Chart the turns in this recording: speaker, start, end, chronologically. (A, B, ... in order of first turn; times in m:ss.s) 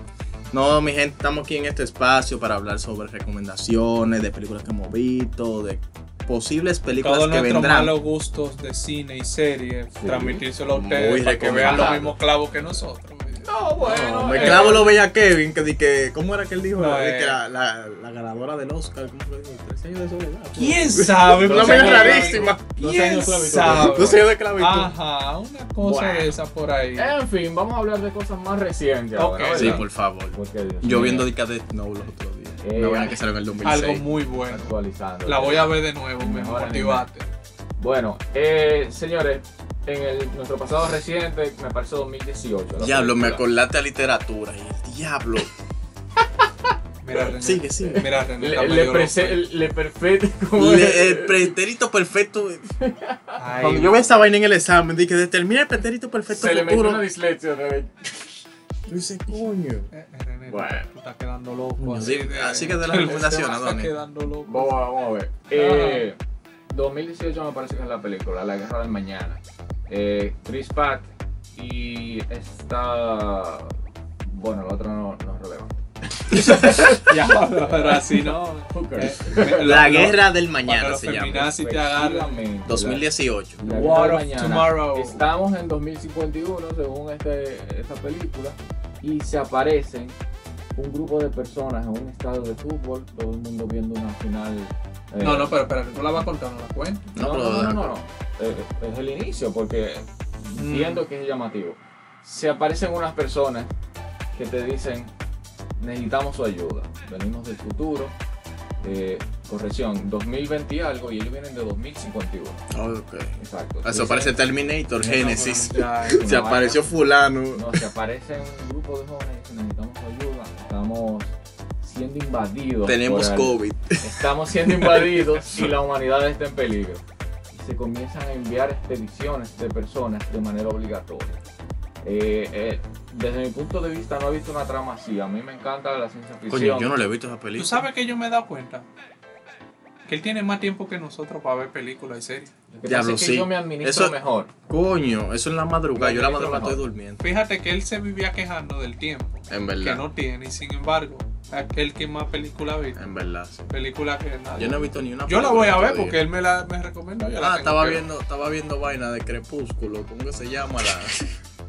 0:00.5-0:08.0 A
0:07.0-0:13.5 B
0:10.0-0:10.4 C
0:10.7-0:12.1 A
0:11.6-0:12.1 C
0:13.4-0:14.9 C
0:13.8-0:22.8 A
0:14.3-0:14.9 B
0:16.8-0:17.4 B
0:20.6-0:27.2 B
0:21.3-0:24.3 C
0:23.5-0:25.0 A
0:25.8-0:26.4 C
0:27.0-0:31.3 C
0:29.2-0:29.8 B
0:29.5-0:34.1 A
0:32.6-0:33.2 C
0:33.6-0:34.7 B
0:34.5-0:37.1 C
0:35.2-0:37.3 B
0:37.8-0:43.5 C
0:42.8-0:45.5 A
0:47.0-0:49.5 B
0:47.2-0:48.1 A
0:47.8-0:51.6 C
0:50.6-0:52.7 A
0:52.8-0:53.4 C
0:53.4-0:54.0 B
0:53.6-0:57.0 A
0:56.3-0:57.9 C
0:58.9-0:59.9 A
0:59.9-1:04.8 B
1:00.5-1:00.9 C
1:01.8-1:04.0 A
1:04.4-1:06.2 C
1:05.5-1:06.1 B
1:06.7-1:17.1 C
1:16.7-1:22.5 B
1:17.7-1:19.7 C
1:19.6-1:21.5 A
1:21.5-1:23.1 C
1:22.6-1:23.7 A
1:23.6-1:30.2 C
1:23.7-1:25.2 B
1:30.8-1:35.6 C
1:35.2-1:37.1 B
1:37.1-1:37.9 A
1:37.2-1:43.7 C
1:40.6-1:41.0 B
1:44.3-1:45.1 C
1:45.8-1:48.2 C
1:48.8-1:52.6 C
1:52.7-1:57.8 A
1:53.4-1:54.4 C
1:55.0-1:56.3 B
1:56.0-1:56.9 C
1:57.5-2:11.4 C
2:02.8-2:05.7 A
2:12.0-2:17.0 C
2:16.5-2:17.8 A
2:17.6-2:18.9 B
2:20.1-2:22.5 B
2:22.7-2:24.5 C
2:22.8-2:24.2 A
2:24.7-2:27.2 A
2:26.0-2:26.8 C
2:27.2-2:33.0 B
2:29.5-2:30.0 A
2:33.0-2:33.7 A
2:33.7-2:38.0 B
2:34.6-2:36.2 A
2:37.2-2:41.2 A